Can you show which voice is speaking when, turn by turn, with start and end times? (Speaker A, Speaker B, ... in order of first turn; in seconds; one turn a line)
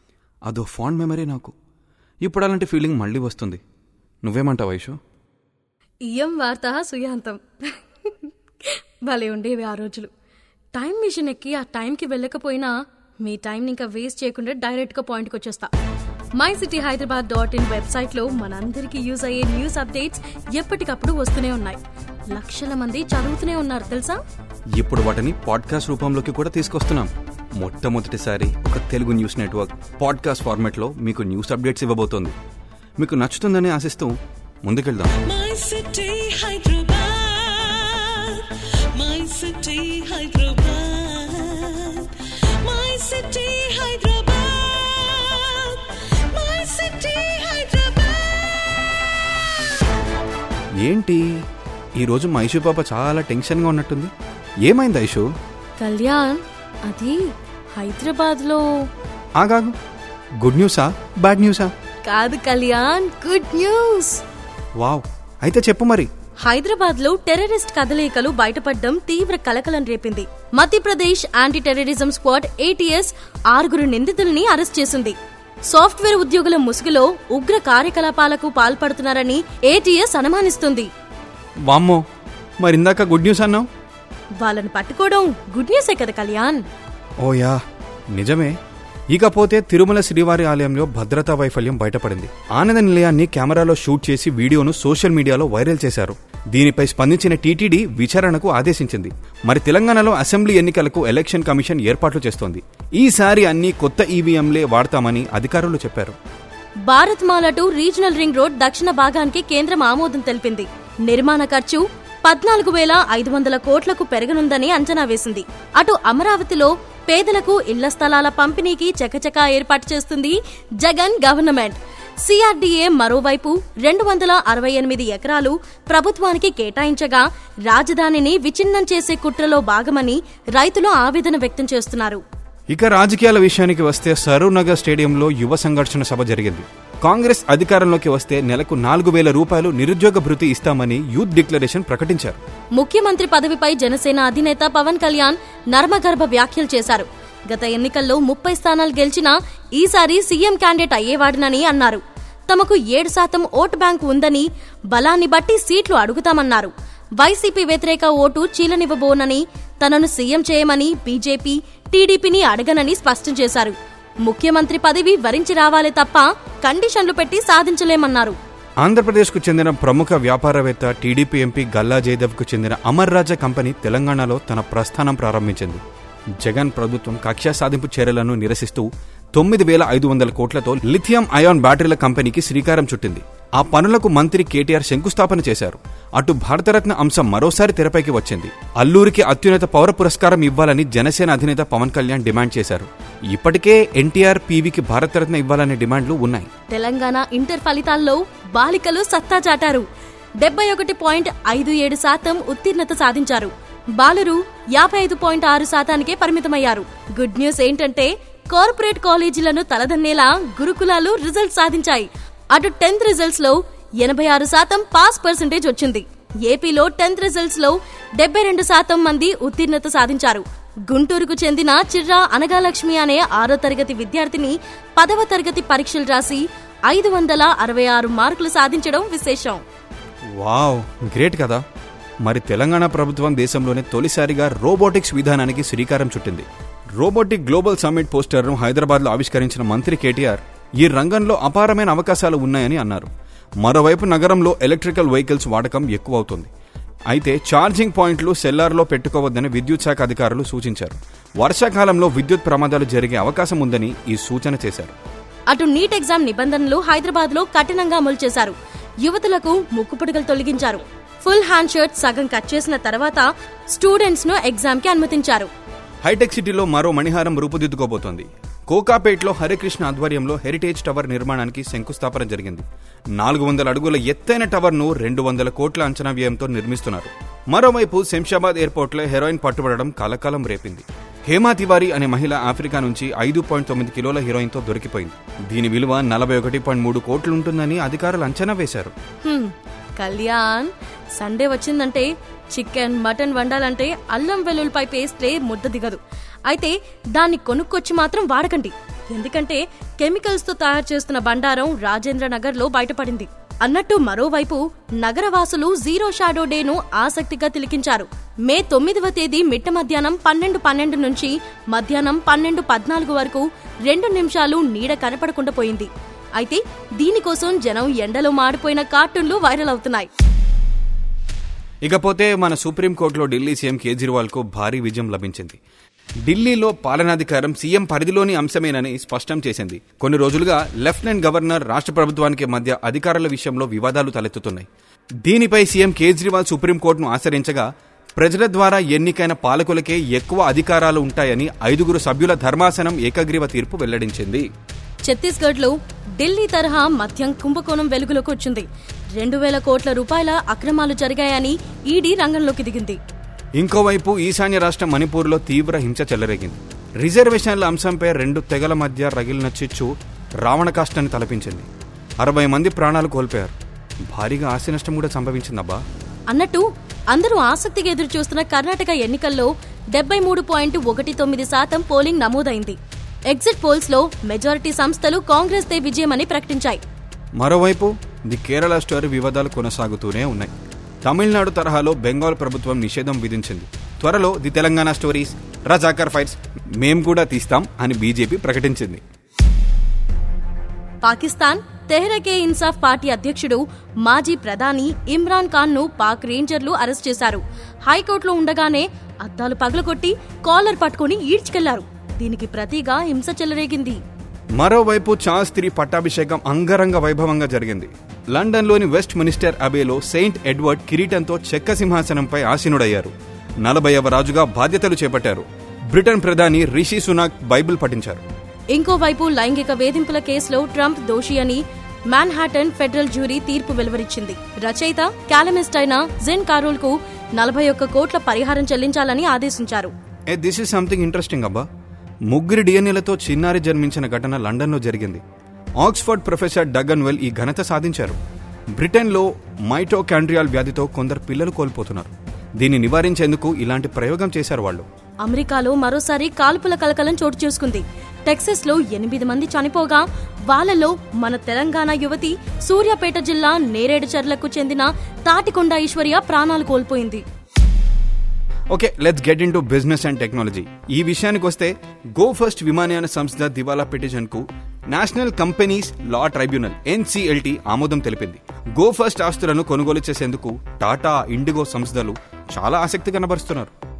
Speaker A: 0.5-1.5
Speaker A: 2.2-3.6
Speaker A: 4.2-5.0
Speaker B: 6.0-10.1
Speaker B: 10.7-12.7
Speaker B: 13.2-15.7
Speaker B: 16.4-21.8
Speaker B: 22.3-24.2
Speaker A: 24.8-32.3
Speaker A: 33.0-35.2
Speaker C: 35.2-48.9
Speaker A: 50.8-51.3
Speaker A: 52.0-54.1
Speaker A: 54.6-55.2
Speaker B: 55.8-58.9
Speaker A: 59.4-59.7
Speaker A: 60.4-61.7
Speaker B: 62.0-64.2
Speaker A: 64.8-66.1
Speaker B: 66.4-80.9
Speaker A: 81.7-82.0
Speaker A: 82.6-83.7
Speaker B: 84.4-86.6
Speaker A: 87.2-87.6
Speaker A: 88.1-88.5
Speaker A: 89.1-106.2
Speaker B: 106.8-132.2
Speaker A: 132.7-142.4
Speaker B: 142.8-168.3
Speaker A: 168.8-175.8
Speaker A: 176.4-196.5
Speaker B: 196.7-199.8
Speaker B: 200.4-229.6
Speaker A: 230.4-231.6
Speaker A: 232.2-236.4
Speaker A: 237.0-243.1
Speaker A: 243.6-246.5
Speaker A: 247.1-254.9
Speaker B: 255.5-265.5
Speaker A: 266.0-272.6
Speaker A: 273.2-288.9
Speaker B: 289.2-320.1
Speaker A: 321.8-325.6
Speaker A: 326.2-334.7
Speaker A: 335.2-344.5
Speaker B: 345.0-353.0
Speaker A: 353.6-359.9
Speaker A: 360.4-361.7
Speaker A: 362.2-363.5
Speaker A: 364.1-365.8
Speaker B: 366.3-372.8
Speaker B: 373.3-376.8
Speaker A: 377.4-380.5
Speaker A: 381.0-389.0
Speaker B: 391.0-404.0
Speaker A: 404.6-418.2
Speaker B: 418.7-429.9
Speaker A: 430.3-431.6
Speaker A: 432.3-435.2
Speaker A: 435.8-438.2
Speaker A: 438.8-444.9
Speaker B: 445.2-457.2
Speaker A: 458.7-473.7